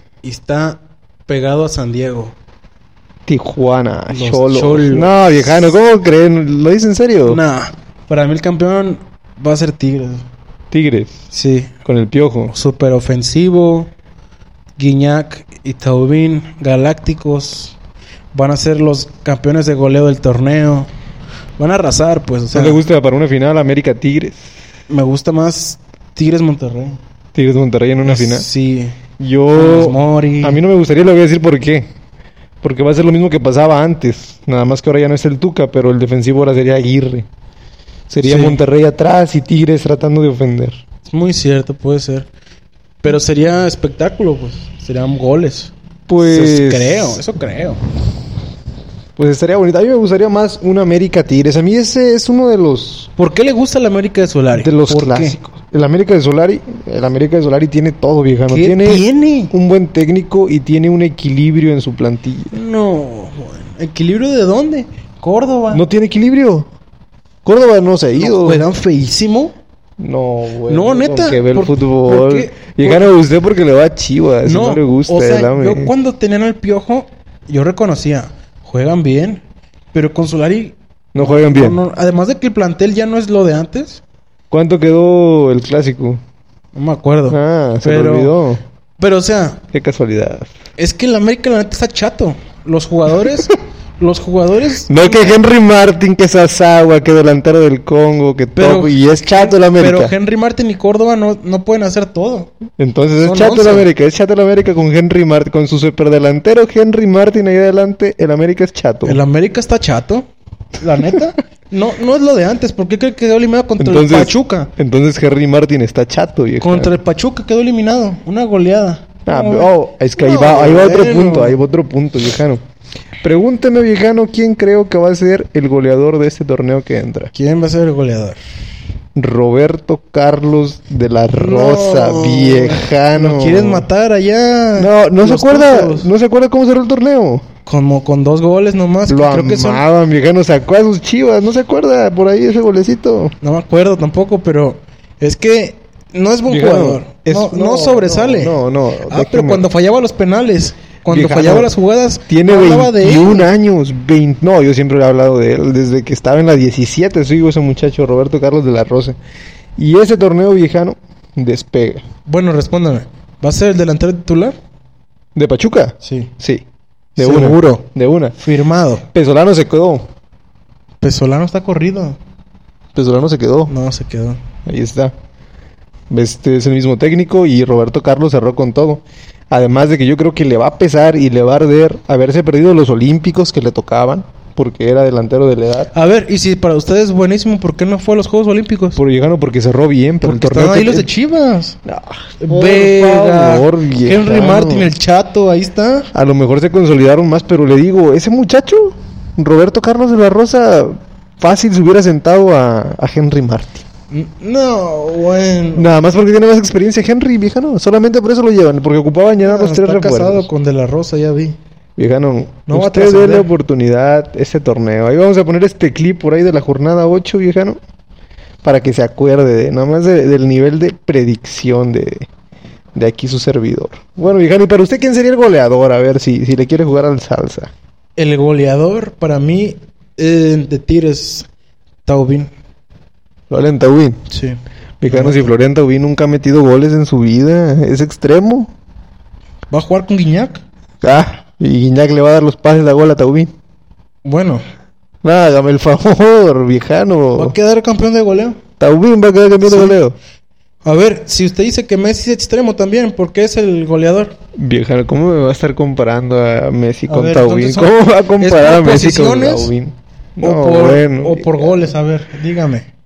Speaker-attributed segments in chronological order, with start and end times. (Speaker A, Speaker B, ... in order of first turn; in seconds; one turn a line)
Speaker A: 0.2-2.4
Speaker B: 3.3-7.4
Speaker A: 4.1-5.2
Speaker A: 7.2-10.2
Speaker B: 10.7-11.2
Speaker A: 11.3-11.7
Speaker B: 11.8-12.5
Speaker A: 12.5-13.9
Speaker A: 14.8-17.8
Speaker A: 18.3-20.9
Speaker A: 21.6-22.8
Speaker B: 22.5-24.4
Speaker A: 24.9-27.0
Speaker B: 27.4-28.4
Speaker A: 28.0-29.0
Speaker B: 29.2-31.9
Speaker A: 29.5-30.6
Speaker B: 32.6-37.3
Speaker B: 38.1-40.8
Speaker A: 38.2-38.6
Speaker A: 41.1-42.3
Speaker A: 43.0-47.8
Speaker B: 46.1-47.2
Speaker B: 49.1-53.1
Speaker A: 53.2-55.4
Speaker B: 54.5-62.5
Speaker A: 58.5-59.5
Speaker A: 62.5-65.8
Speaker B: 65.7-66.7
Speaker B: 67.4-68.6
Speaker A: 68.2-69.5
Speaker B: 70.0-75.9
Speaker A: 70.7-73.1
Speaker A: 74.4-79.4
Speaker A: 79.9-84.0
Speaker B: 81.1-81.8
Speaker B: 84.5-86.2
Speaker A: 86.7-88.3
Speaker B: 87.3-88.6
Speaker A: 89.0-89.6
Speaker B: 89.7-90.5
Speaker A: 90.8-95.3
Speaker B: 94.9-100.1
Speaker A: 98.5-102.5
Speaker B: 102.8-109.2
Speaker A: 103.2-103.9
Speaker A: 109.0-110.2
Speaker A: 110.8-114.7
Speaker B: 113.8-116.9
Speaker A: 116.6-121.6
Speaker B: 119.3-122.6
Speaker B: 123.2-127.3
Speaker A: 127.3-128.4
Speaker B: 129.1-133.9
Speaker A: 131.3-136.1
Speaker B: 134.8-137.4
Speaker A: 137.7-139.8
Speaker B: 139.1-143.3
Speaker A: 143.4-148.6
Speaker B: 146.5-149.6
Speaker A: 149.1-153.4
Speaker B: 151.1-151.7
Speaker B: 152.3-159.2
Speaker B: 159.8-162.0
Speaker A: 162.3-164.6
Speaker B: 165.3-166.6
Speaker A: 166.0-166.3
Speaker B: 167.2-168.3
Speaker A: 167.2-167.8
Speaker A: 168.4-169.0
Speaker B: 169.1-170.1
Speaker A: 171.0-172.2
Speaker B: 172.9-173.7
Speaker A: 173.7-174.4
Speaker B: 174.6-175.1
Speaker B: 176.1-185.9
Speaker A: 185.9-189.0
Speaker B: 188.9-191.1
Speaker A: 190.2-191.8
Speaker B: 191.9-194.9
Speaker A: 192.4-196.1
Speaker B: 196.1-203.8
Speaker A: 204.1-205.9
Speaker B: 205.7-210.5
Speaker A: 209.4-211.6
Speaker B: 212.0-217.8
Speaker A: 212.7-213.5
Speaker B: 218.6-222.3
Speaker B: 222.9-227.7
Speaker A: 228.2-231.5
Speaker A: 232.1-232.5
Speaker B: 233.5-234.2
Speaker A: 234.3-235.5
Speaker B: 235.0-238.7
Speaker A: 239.7-240.6
Speaker B: 241.0-243.5
Speaker A: 244.2-244.6
Speaker B: 245.2-247.5
Speaker A: 247.4-248.6
Speaker B: 248.8-250.2
Speaker A: 249.6-250.0
Speaker A: 250.8-254.3
Speaker B: 254.6-261.9
Speaker A: 257.1-259.7
Speaker A: 260.4-262.9